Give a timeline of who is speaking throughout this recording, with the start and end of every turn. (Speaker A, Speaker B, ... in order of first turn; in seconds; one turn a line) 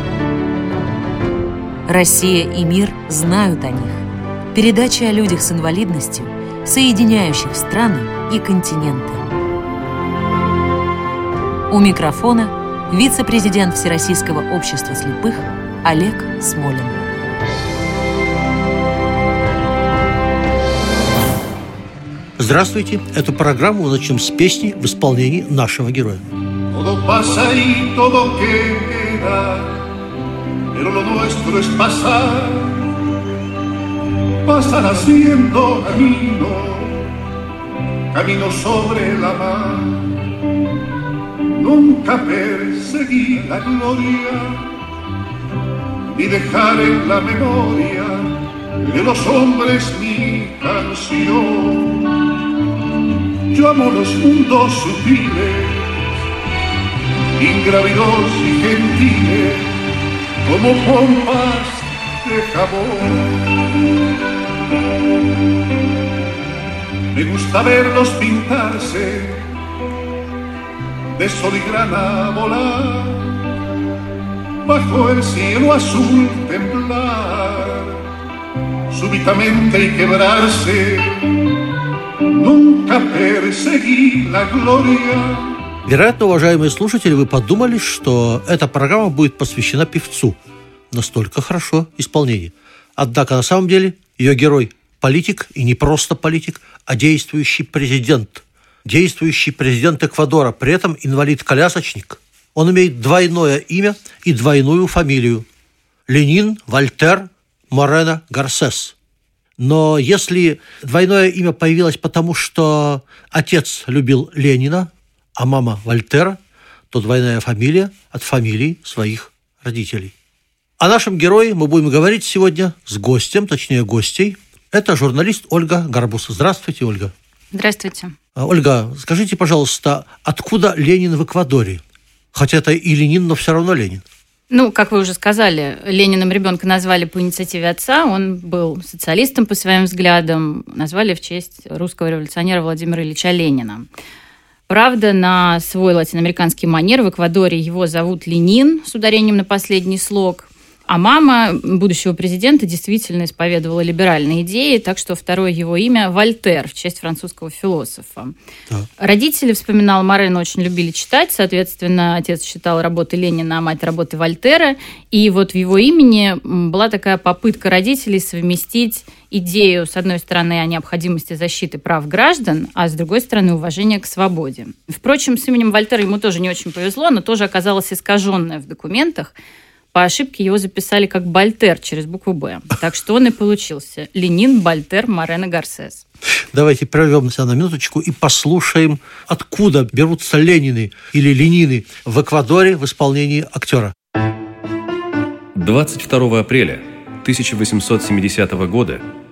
Speaker A: 1.9-9.3
Speaker A: 11.7-17.0
Speaker B: 22.4-26.2
Speaker C: 26.7-29.9
Speaker C: 30.7-33.0
Speaker C: 34.4-37.1
Speaker C: 38.1-40.2
Speaker C: 41.5-44.7
Speaker C: 46.1-52.2
Speaker C: 53.5-56.0
Speaker C: 57.4-59.8
Speaker C: 60.4-63.5
Speaker C: 67.1-69.5
Speaker C: 71.2-73.5
Speaker C: 74.6-78.0
Speaker C: 78.9-81.5
Speaker C: 82.3-85.6
Speaker B: 85.9-90.4
Speaker B: 90.9-105.5
Speaker B: 106.1-108.9
Speaker B: 109.6-116.4
Speaker B: 116.9-120.1
Speaker B: 120.8-127.1
Speaker D: 127.5-128.2
Speaker B: 128.3-131.8
Speaker B: 132.3-134.0
Speaker D: 134.5-143.9
Speaker D: 144.7-158.3
Speaker D: 159.0-179.3
Speaker D: 179.9-186.1
Speaker B: 186.5-193.9
Speaker E: 195.6-199.0